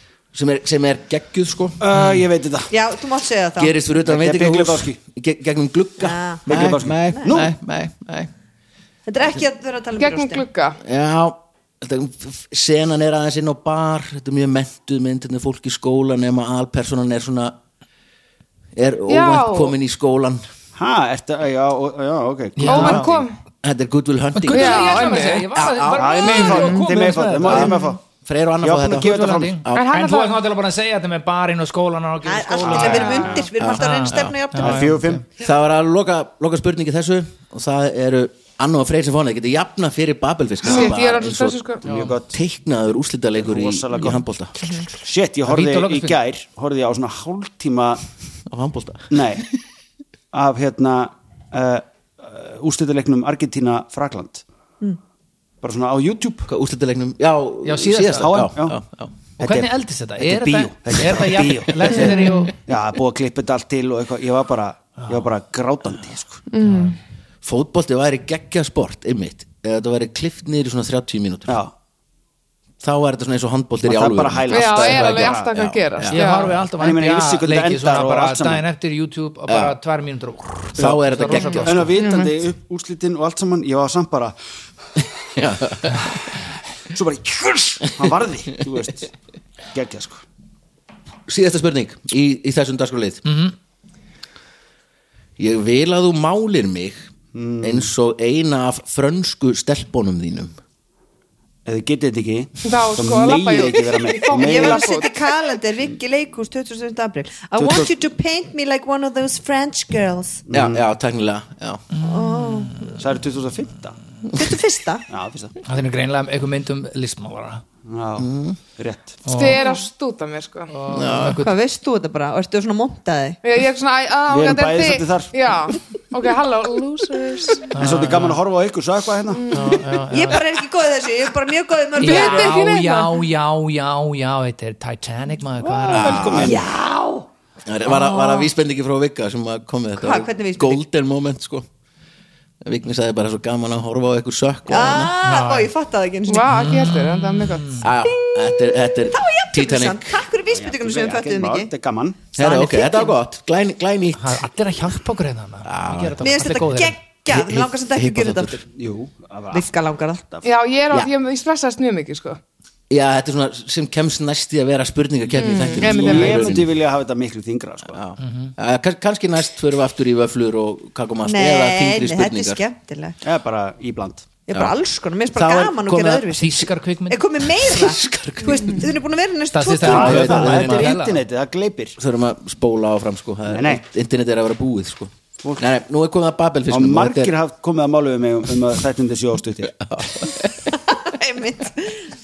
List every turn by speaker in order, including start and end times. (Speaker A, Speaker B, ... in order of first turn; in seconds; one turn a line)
Speaker A: 0.3-1.8
Speaker B: 1.8-2.7
Speaker C: 1.9-2.2
Speaker D: 2.7-3.8
Speaker A: 3.6-8.3
Speaker B: 4.0-5.0
Speaker D: 6.0-6.5
Speaker B: 6.5-7.5
Speaker D: 9.1-10.5
Speaker E: 10.0-10.8
Speaker A: 10.8-17.6
Speaker A: 18.8-20.4
Speaker E: 19.1-19.8
Speaker B: 20.8-23.1
Speaker C: 22.6-23.2
Speaker E: 22.6-23.4
Speaker A: 23.6-26.6
Speaker C: 24.4-27.9
Speaker E: 24.5-25.6
Speaker B: 25.9-28.0
Speaker E: 26.2-26.9
Speaker A: 27.4-29.9
Speaker B: 28.6-29.6
Speaker C: 29.0-35.2
Speaker E: 29.7-30.4
Speaker D: 32.2-35.0
Speaker B: 32.6-33.5
Speaker E: 32.8-33.5
Speaker A: 33.6-34.4
Speaker B: 34.6-35.3
Speaker A: 35.4-41.6
Speaker E: 40.6-41.9
Speaker B: 41.8-42.4
Speaker A: 42.3-44.5
Speaker B: 43.4-44.3
Speaker B: 44.9-48.0
Speaker C: 45.5-46.2
Speaker A: 48.5-49.2
Speaker B: 49.1-49.5
Speaker B: 50.3-54.4
Speaker B: 55.6-56.5
Speaker A: 56.5-59.1
Speaker C: 57.6-58.5
Speaker B: 58.2-58.8
Speaker C: 59.4-62.5
Speaker B: 59.4-66.4
Speaker E: 62.0-62.5
Speaker E: 66.5-67.0
Speaker C: 66.6-67.0
Speaker A: 67.4-71.6
Speaker B: 71.5-71.7
Speaker A: 72.8-76.2
Speaker B: 73.8-75.5
Speaker E: 74.5-76.6
Speaker C: 76.1-82.0
Speaker B: 76.8-78.7
Speaker A: 79.5-79.8
Speaker A: 80.8-81.9
Speaker B: 81.6-84.4
Speaker E: 81.6-82.4
Speaker A: 85.4-86.2
Speaker B: 86.9-89.1
Speaker B: 89.7-90.2
Speaker A: 91.3-93.2
Speaker C: 93.3-93.5
Speaker A: 95.4-97.1
Speaker B: 97.3-97.9
Speaker A: 97.6-100.5
Speaker B: 101.7-104.9
Speaker E: 102.6-105.2
Speaker D: 104.3-110.4
Speaker B: 107.6-107.9
Speaker B: 110.5-110.8
Speaker A: 110.5-111.8
Speaker C: 112.0-113.0
Speaker D: 112.0-112.9
Speaker B: 113.0-114.0
Speaker D: 114.3-115.1
Speaker B: 115.1-115.6
Speaker C: 115.7-117.6
Speaker B: 117.8-119.2
Speaker A: 118.2-118.6
Speaker C: 119.3-119.7
Speaker E: 119.3-120.7
Speaker C: 120.7-121.5
Speaker A: 120.9-121.4
Speaker D: 121.4-123.4
Speaker E: 123.4-127.8
Speaker B: 124.3-125.4
Speaker C: 127.7-128.4
Speaker B: 127.8-129.7
Speaker E: 129.3-129.8
Speaker C: 129.5-130.5
Speaker D: 130.1-132.6
Speaker C: 132.0-136.5
Speaker E: 132.0-133.2
Speaker B: 135.6-136.6
Speaker A: 135.9-136.6
Speaker D: 136.4-137.3
Speaker A: 137.7-141.7
Speaker D: 137.8-138.5
Speaker D: 140.0-140.8
Speaker A: 142.6-145.1
Speaker D: 144.7-146.6
Speaker C: 145.2-145.7
Speaker E: 146.3-147.9
Speaker C: 146.5-147.9
Speaker A: 147.8-150.2
Speaker D: 148.1-151.7
Speaker B: 150.5-152.3
Speaker A: 152.3-154.4
Speaker D: 152.4-153.2
Speaker C: 154.2-157.0
Speaker A: 155.7-156.3
Speaker D: 156.2-158.6
Speaker A: 157.3-158.6
Speaker B: 158.7-159.7
Speaker D: 159.5-160.2
Speaker E: 160.4-162.4
Speaker A: 162.9-166.7
Speaker E: 165.3-166.6
Speaker B: 165.8-168.0
Speaker A: 167.9-172.6
Speaker C: 168.2-168.5
Speaker D: 171.2-173.2
Speaker B: 173.2-174.3
Speaker D: 174.5-180.5
Speaker A: 175.3-176.3
Speaker C: 176.3-177.3
Speaker A: 177.6-178.9
Speaker C: 179.5-181.2
Speaker B: 179.8-182.0
Speaker A: 179.9-180.9
Speaker A: 182.0-187.3
Speaker B: 183.5-183.8
Speaker B: 186.7-189.8
Speaker A: 189.8-190.8
Speaker D: 190.9-192.1